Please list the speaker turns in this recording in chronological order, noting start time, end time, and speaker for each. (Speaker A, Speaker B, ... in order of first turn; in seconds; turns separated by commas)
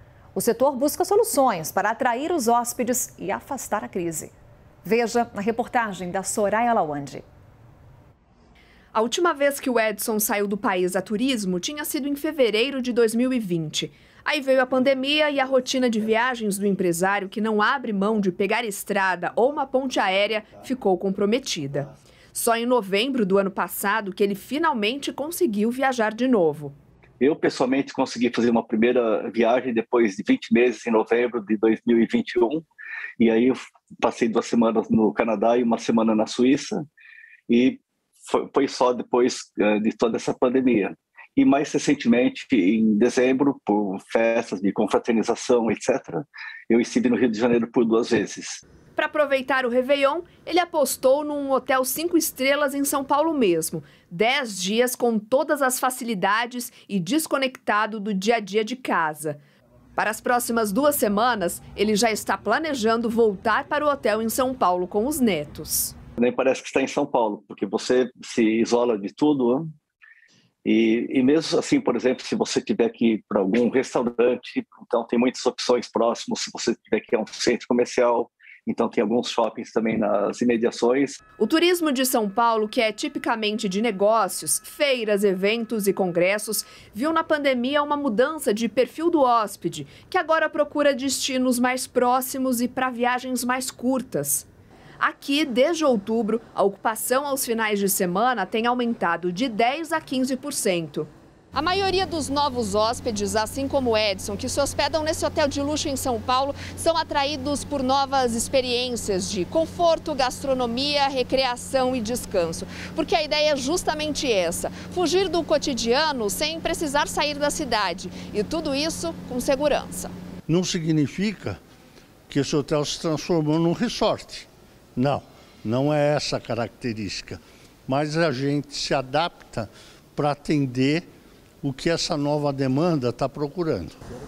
Speaker A: 0.3-4.3, Speaker A: 4.8-7.2, Speaker B: 8.9-26.8, Speaker C: 27.2-32.6, Speaker C: 33.2-36.8, Speaker C: 37.5-48.6, Speaker B: 49.0-59.4, Speaker B: 60.0-65.9, Speaker C: 66.2-69.7, Speaker C: 70.6-81.2, Speaker B: 81.4-94.5, Speaker B: 95.0-120.1, Speaker D: 120.5-121.6, Speaker D: 122.3-131.0, Speaker D: 131.6-134.0